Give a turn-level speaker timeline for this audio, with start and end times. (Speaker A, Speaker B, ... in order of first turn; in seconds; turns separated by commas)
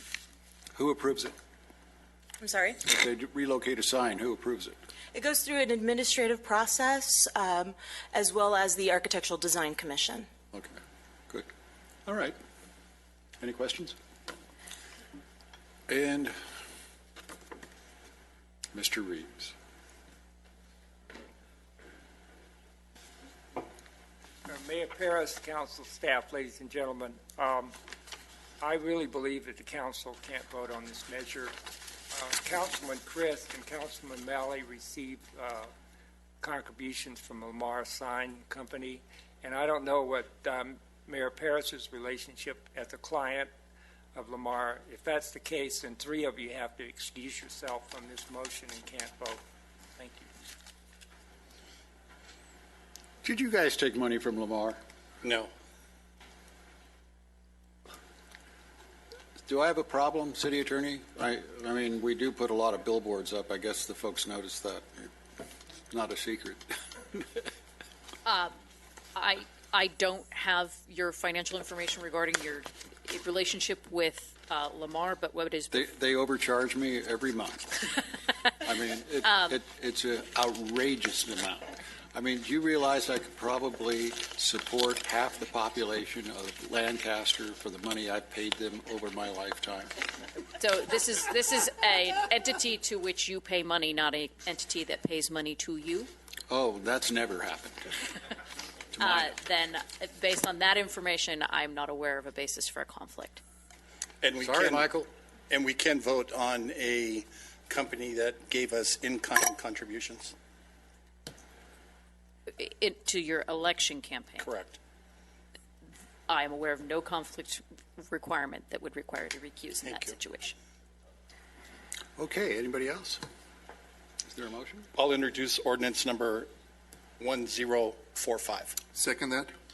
Speaker A: 0.8-1.3, Speaker B: 2.4-2.8, Speaker A: 2.8-4.8, Speaker B: 5.1-10.3, Speaker A: 12.1-12.4, Speaker A: 13.4-14.0, Speaker A: 15.9-16.4, Speaker A: 18.7-19.5, Speaker C: 24.5-27.7, Speaker C: 28.6-31.5, Speaker C: 32.1-35.7, Speaker C: 36.4-43.5, Speaker C: 44.1-49.4, Speaker C: 50.0-50.3, Speaker A: 53.2-54.8, Speaker D: 55.2-55.5, Speaker A: 59.5-65.1, Speaker A: 65.9-66.6, Speaker E: 68.2-68.5, Speaker E: 69.2-75.9, Speaker A: 75.7-77.8, Speaker A: 78.6-89.9, Speaker E: 79.2-79.6, Speaker E: 90.6-96.1, Speaker A: 96.5-98.0, Speaker A: 99.0-99.3, Speaker E: 99.0-103.4, Speaker D: 104.2-104.9, Speaker A: 104.4-105.1, Speaker D: 105.5-110.3, Speaker E: 112.6-114.5, Speaker D: 114.4-114.8, Speaker E: 116.3-120.5, Speaker D: 119.8-120.2, Speaker A: 122.2-123.2, Speaker A: 124.3-124.9, Speaker D: 125.0-126.5, Speaker D: 127.2-129.5